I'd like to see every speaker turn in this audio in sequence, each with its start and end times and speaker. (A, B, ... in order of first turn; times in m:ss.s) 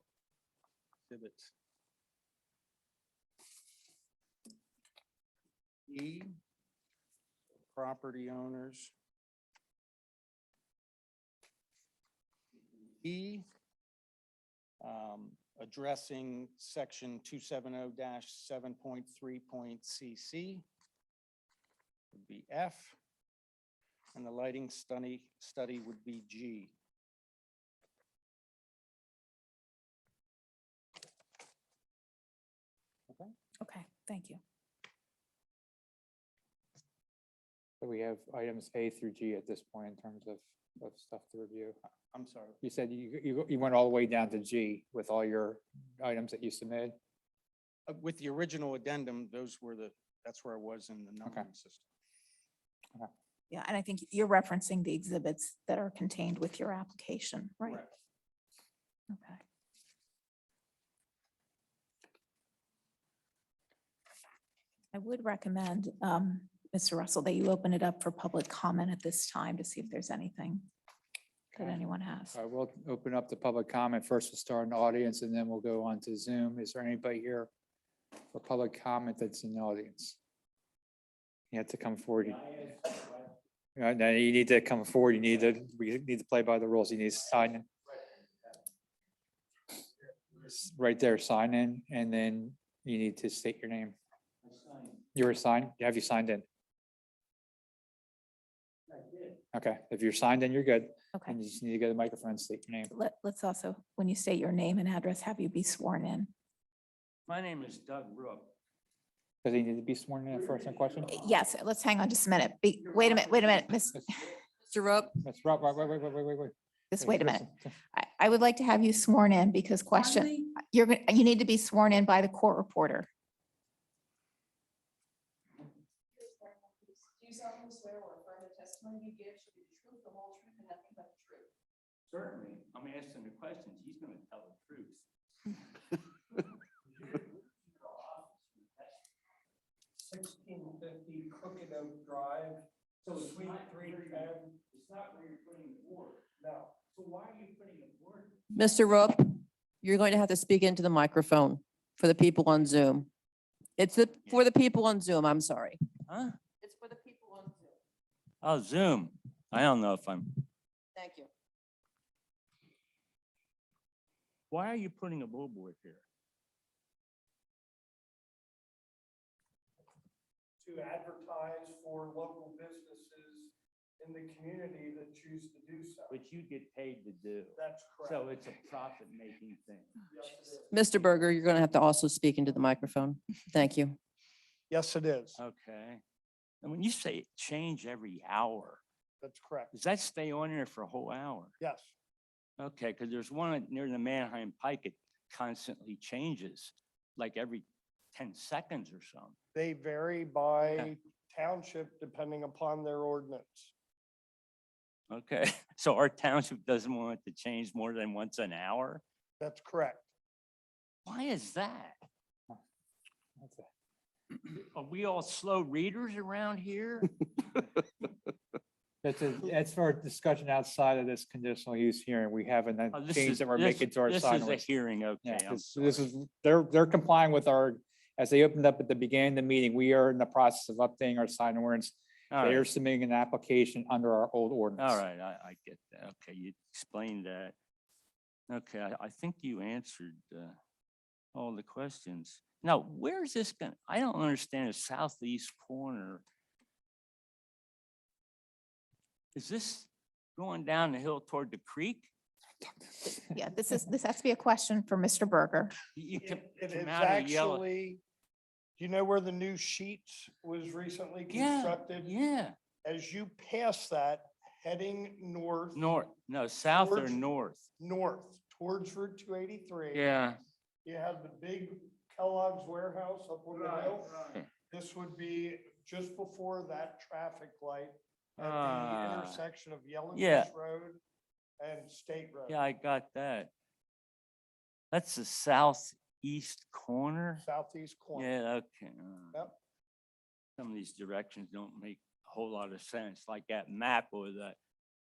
0:01.1-0:01.5 A
0:05.9-0:06.3 A
0:07.7-0:08.9 A
0:13.0-0:13.5 A
0:14.8-0:20.6 A
0:22.1-0:23.0 A
0:24.2-0:26.7 A
0:33.6-0:34.4 B
0:37.8-0:41.8 C
0:42.1-0:42.6 A
0:42.6-0:47.0 C
0:47.9-0:51.8 A
0:53.5-0:57.8 B
0:59.1-0:59.4 B
1:04.9-1:10.7 B
1:11.5-1:17.5 C
1:11.6-1:12.4 B
1:18.3-1:20.2 C
1:21.5-1:22.5 C
1:22.2-1:23.3 D
1:23.8-1:27.7 C
1:30.4-1:33.9 C
1:34.4-1:35.0 D
1:35.2-1:36.4 C
1:38.9-1:39.4 D
1:39.5-1:42.9 C
1:42.9-1:46.3 B
1:47.3-1:48.5 D
1:49.4-1:51.2 C
1:51.1-1:54.2 B
1:54.7-1:55.2 E
1:55.2-1:57.7 C
1:56.9-2:03.1 B
1:59.9-2:00.5 E
2:06.9-2:10.2 F
2:10.8-2:11.3 F
2:12.1-2:15.0 D
2:17.8-2:18.6 D
2:20.0-2:24.6 G
2:23.0-2:26.2 D
2:26.4-2:26.8 G
2:26.8-2:28.5 D
2:28.5-2:33.1 E
2:33.8-2:35.8 E
2:36.1-2:36.4 D
2:36.6-2:37.8 E
2:38.4-2:40.4 D
2:41.0-2:41.3 E
2:44.5-2:46.0 D
2:50.6-2:56.2 G
2:56.1-3:00.0 D
2:57.6-2:58.3 G
3:00.1-3:00.7 G
3:00.7-3:04.0 E
3:04.7-3:05.4 G
3:05.4-3:06.0 D
3:06.6-3:08.8 D
3:09.2-3:09.7 G
3:09.7-3:11.5 D
3:11.6-3:12.0 G
3:12.6-3:19.4 D
3:19.6-3:23.7 G
3:25.1-3:29.0 D
3:29.4-3:30.1 G
3:31.1-3:32.0 D
3:33.4-3:33.7 C
3:34.5-3:37.2 D
3:39.0-3:44.7 C
3:42.9-3:46.0 D
3:45.2-3:55.0 C
3:52.3-3:52.7 D
3:54.8-3:57.6 D
3:58.5-4:00.6 D
4:01.3-4:06.2 D
4:09.3-4:12.1 D
4:12.8-4:13.3 C
4:13.3-4:15.8 B
4:15.9-4:17.7 D
4:16.2-4:18.0 G
4:18.8-4:22.1 G
4:21.3-4:22.6 D
4:22.8-4:25.9 G
4:25.7-4:27.7 D
4:26.7-4:27.2 G
4:27.8-4:30.0 G
4:29.9-4:30.4 D
4:30.8-4:41.0 G
4:33.5-4:34.5 D
4:38.4-4:39.4 D
4:40.1-4:40.5 D
4:41.6-4:42.6 G
4:42.5-4:43.5 D
4:44.9-4:47.5 D
4:47.4-4:48.3 G
4:48.1-4:49.5 D
4:50.6-4:54.6 D